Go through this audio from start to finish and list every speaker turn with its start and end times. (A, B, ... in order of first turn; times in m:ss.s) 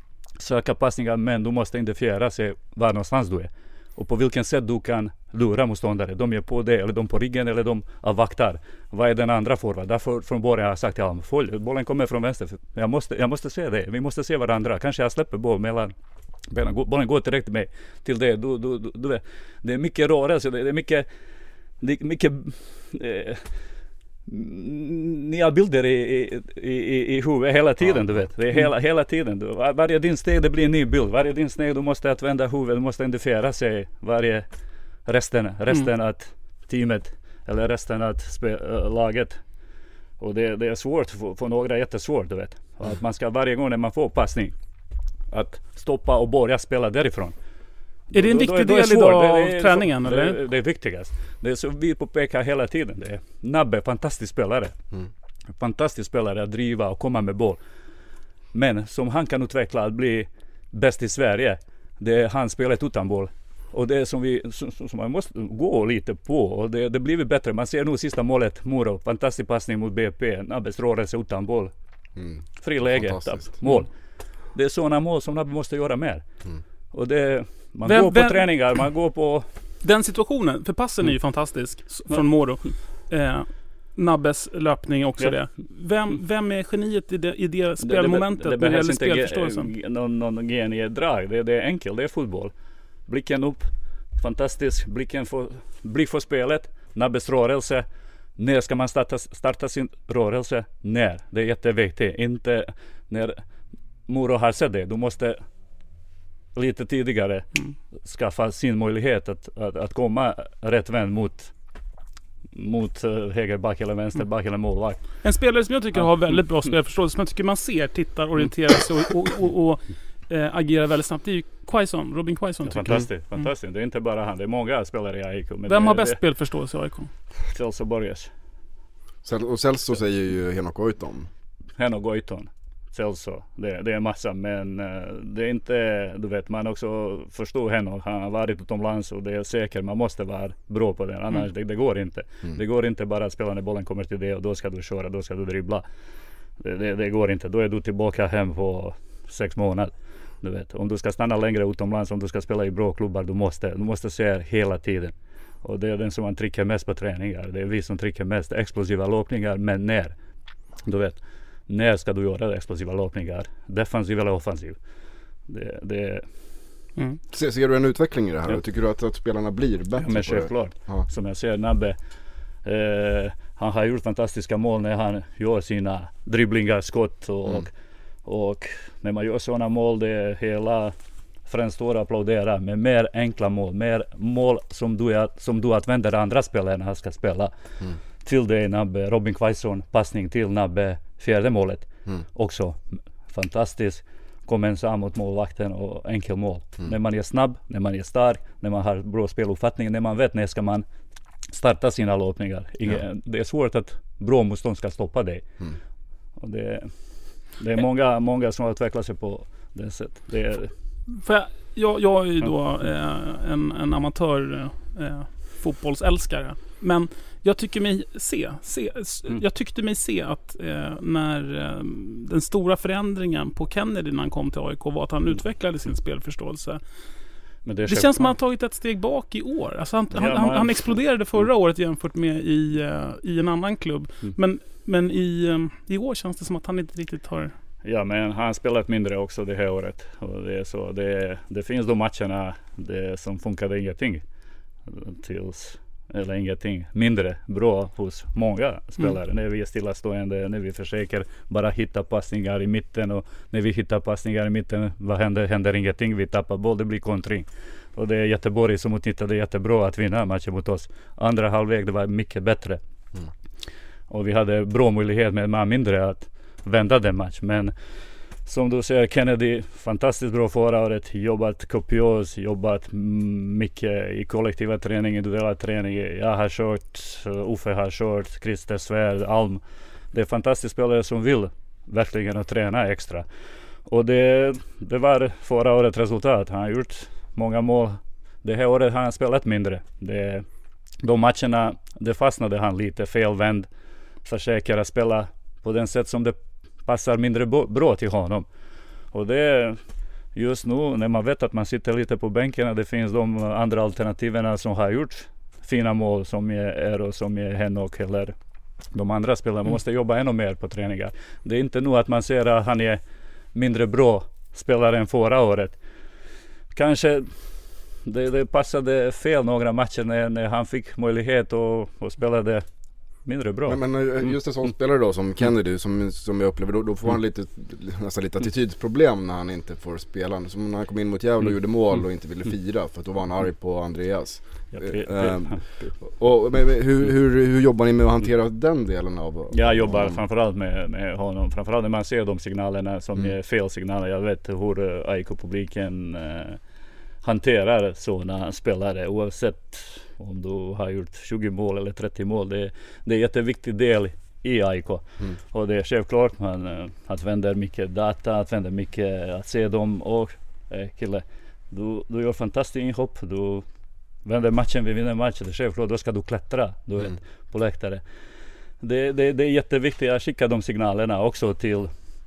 0:00.4-0:15.9 A
0:16.5-0:21.1 A
0:21.8-0:23.6 A
0:24.3-0:34.5 A
0:27.8-0:28.3 B
0:35.1-0:39.4 A
0:40.2-0:44.6 A
0:45.3-0:47.4 A
0:48.1-0:50.4 C
0:48.1-0:54.7 A
0:55.6-0:57.6 A
0:58.5-1:11.7 A
1:12.2-1:13.5 B
1:12.6-1:13.9 A
1:14.5-1:16.2 A
1:16.9-1:19.5 A
1:17.9-1:18.8 C
1:19.8-1:29.7 C
1:27.8-1:32.5 A
1:33.1-1:37.8 A
1:38.4-1:43.4 A
1:44.1-1:45.4 A
1:46.6-1:47.5 A
1:48.0-1:51.5 A
1:52.5-1:55.2 A
1:55.2-2:03.4 C
2:02.6-2:06.2 A
2:05.7-2:07.1 C
2:07.5-2:08.3 A
2:09.2-2:11.3 B
2:11.8-2:25.8 A
2:26.6-2:40.2 A
2:40.8-2:44.8 A
2:45.5-2:46.3 A
2:47.3-2:51.1 B
2:50.0-2:52.0 A
2:52.6-2:57.7 A
2:58.2-3:01.0 A
3:01.5-3:07.5 A
3:08.2-3:20.9 A
3:21.5-3:25.4 A
3:26.4-3:30.7 A
3:31.1-3:46.8 C
3:47.6-3:48.4 A
3:47.9-3:57.5 C
3:50.1-3:51.0 A
3:57.8-4:04.2 A
4:04.9-4:22.8 A
4:24.1-4:27.7 A
4:28.4-4:39.6 A
4:40.1-4:43.2 A
4:43.9-4:50.5 A
4:51.0-4:53.7 A
4:54.2-4:58.5 A
4:59.1-4:59.8 A
5:00.4-5:08.4 A
5:08.9-5:13.0 A
5:13.5-5:15.8 A
5:16.7-5:17.5 A
5:18.0-5:22.6 A
5:23.2-5:24.3 A
5:23.7-5:40.2 B
5:34.7-5:36.0 A
5:39.5-5:46.6 A
5:47.2-6:03.6 A
6:04.2-6:08.0 A
6:08.8-6:11.9 A